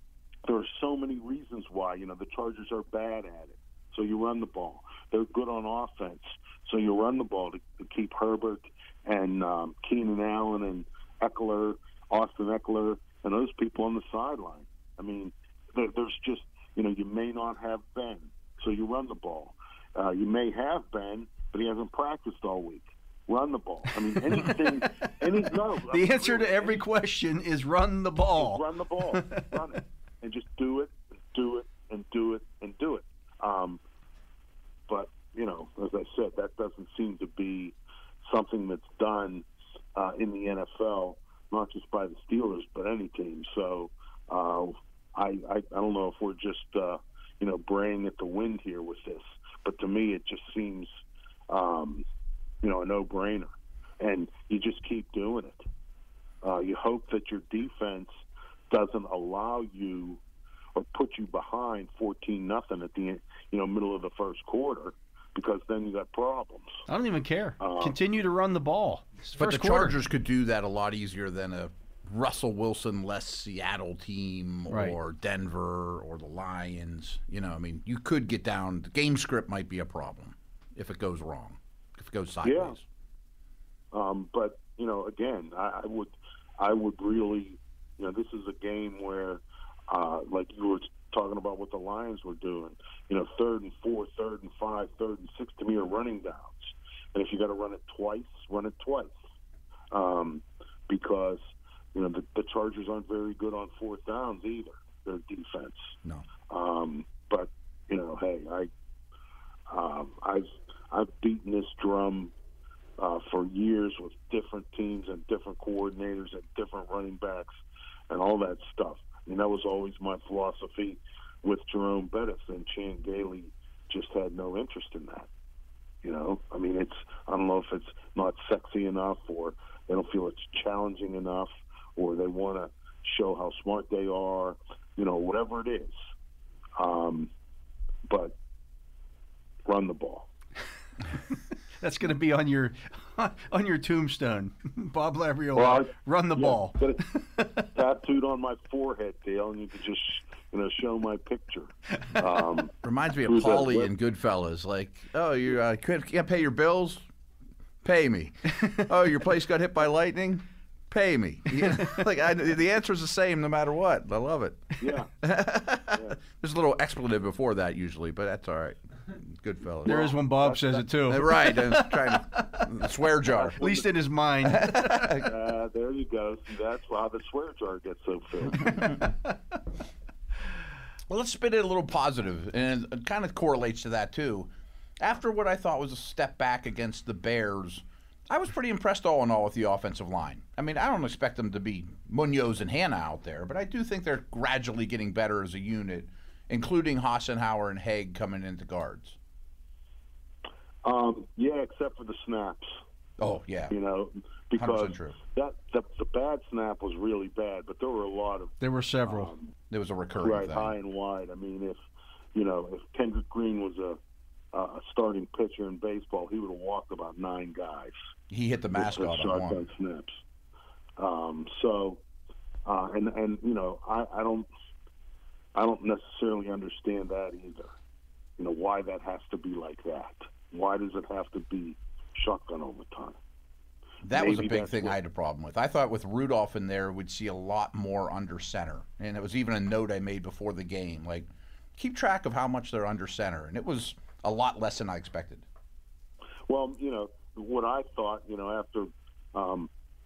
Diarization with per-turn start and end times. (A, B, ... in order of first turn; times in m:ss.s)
0:00.5-0:26.8 A
0:24.2-0:29.5 B
0:28.4-0:33.8 A
0:34.9-0:39.4 A
0:40.0-0:50.9 A
0:51.5-0:52.0 A
0:52.6-0:55.6 A
0:56.4-0:58.1 A
0:58.7-1:00.2 A
1:00.8-1:06.8 A
1:06.9-1:10.0 B
1:07.6-1:08.0 A
1:09.4-1:22.8 C
1:14.7-1:15.0 B
1:22.4-1:22.8 A
1:23.9-1:39.1 A
1:39.9-1:41.4 A
1:41.9-1:46.0 A
1:46.5-1:48.7 A
1:49.7-1:52.3 A
1:53.0-1:57.5 A
1:58.1-2:05.3 A
2:06.0-2:15.9 A
2:16.8-2:17.3 A
2:18.1-2:18.4 A
2:19.7-2:20.3 A
2:21.8-2:27.7 B
2:25.6-2:27.0 A
2:27.7-2:32.7 A
2:32.8-2:37.0 C
2:33.3-2:33.9 A
2:37.8-2:50.1 C
2:41.6-2:42.0 B
2:44.8-2:45.1 A
2:45.9-2:46.2 A
2:49.8-2:50.8 A
2:49.8-2:52.8 B
2:51.1-2:53.6 C
2:53.3-2:53.9 A
2:53.6-2:55.3 B
2:54.4-2:55.3 C
2:55.1-2:59.0 A
3:01.1-3:19.2 C
3:20.8-3:22.7 A
3:23.2-3:23.7 C
3:23.7-3:29.5 A
3:24.6-3:25.2 C
3:28.6-3:29.3 B
3:29.7-3:30.7 C
3:30.2-3:31.8 A
3:32.4-3:34.0 A
3:34.5-3:38.0 A
3:38.3-3:39.6 C
3:38.8-3:40.2 A
3:41.0-3:42.0 A
3:42.7-3:44.5 A
3:45.6-3:47.8 A
3:48.4-3:53.2 A
3:54.0-4:05.4 C
3:54.1-3:55.0 A
4:06.5-4:09.7 A